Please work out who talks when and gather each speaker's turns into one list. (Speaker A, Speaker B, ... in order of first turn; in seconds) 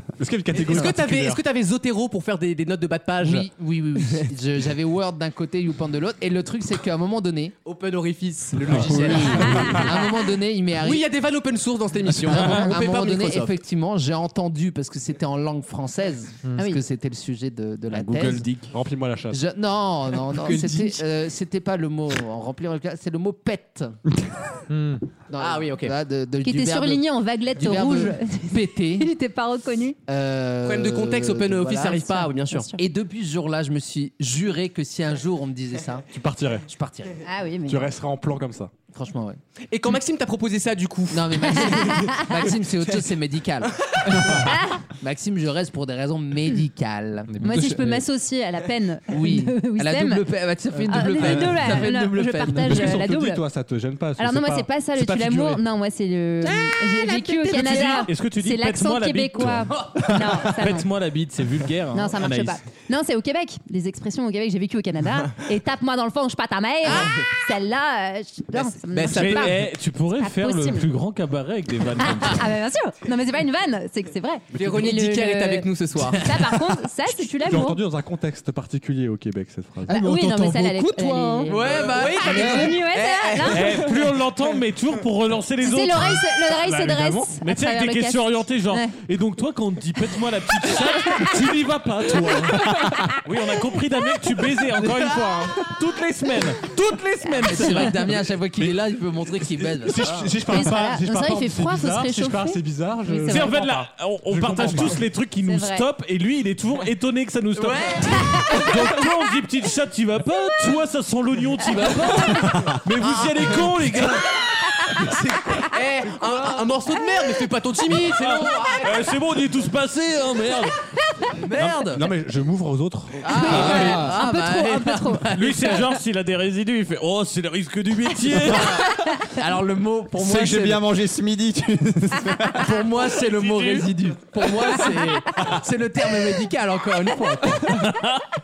Speaker A: 0.2-1.4, 8.7-9.8, 18.7-19.4, 36.1-36.6, 37.6-38.7, 52.5-55.6, 77.4-80.0, 99.5-105.1, 121.6-123.7
Speaker B: 0.5-3.5, 7.6-9.9, 10.8-13.6, 25.4-25.9, 30.6-32.7, 39.7-42.1, 66.8-67.2, 68.6-69.6, 74.5-76.3, 81.5-84.2, 107.6-108.2, 111.7-112.3, 113.0-114.1, 114.9-119.1, 123.4-124.9
Speaker C: 3.2-7.5, 8.7-11.0, 12.3-18.5, 19.3-23.9, 25.3-29.1, 30.1-32.2, 32.8-36.1, 36.7-37.2, 38.9-39.4, 41.1-44.5, 45.0-47.3, 49.1-52.8, 81.6-82.4, 97.4-100.4, 121.3-122.0, 123.2-125.8, 129.3-130.8, 132.6-137.8
Speaker D: 8.7-9.6, 130.2-132.8
Speaker E: 17.9-18.7, 57.5-62.6, 69.1-72.5, 83.5-98.1, 103.3-114.2, 118.2-120.7, 125.3-128.8, 133.2-133.9, 137.8-138.2
Speaker F: 24.7-25.0, 47.3-48.0, 79.9-81.6, 82.3-82.8, 123.5-124.2
Speaker G: 26.4-30.0, 32.5-32.8, 37.2-37.9, 41.7-42.1, 44.5-44.8, 47.4-50.2, 50.9-53.4, 54.2-60.9, 61.9-70.9, 72.0-77.8, 79.9-83.8, 85.6-88.9, 97.2-97.8, 100.5-103.6, 104.6-105.8, 108.4-109.0, 123.3-125.9